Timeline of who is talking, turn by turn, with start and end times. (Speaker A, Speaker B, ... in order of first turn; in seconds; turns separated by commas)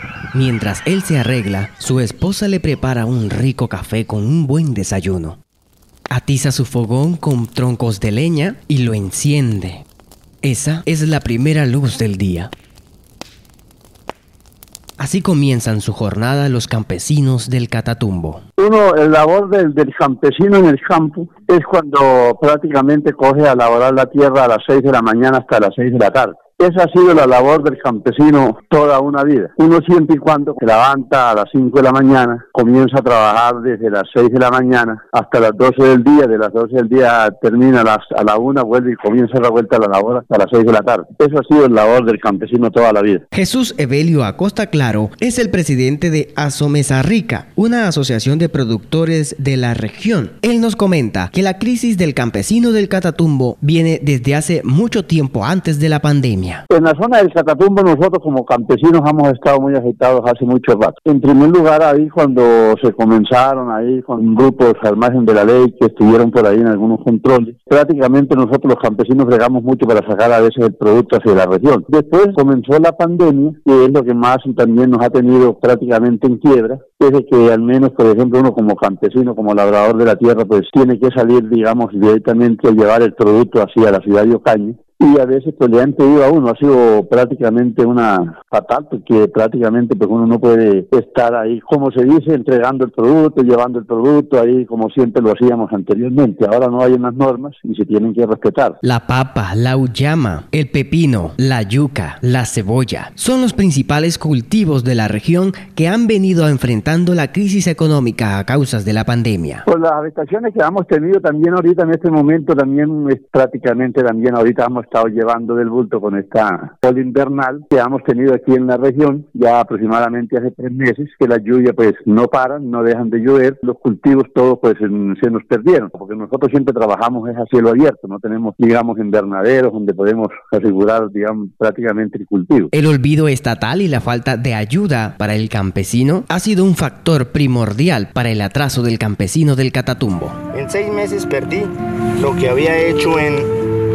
Speaker A: 0.3-5.4, Speaker A: 6.1-9.8, Speaker A: 10.4-12.5, Speaker A: 15.0-18.4, Speaker B: 18.6-43.2, Speaker A: 43.3-56.6, Speaker B: 56.7-98.8, Speaker A: 98.8-109.7, Speaker B: 109.7-132.7, Speaker A: 132.7-140.4, Speaker C: 140.5-143.5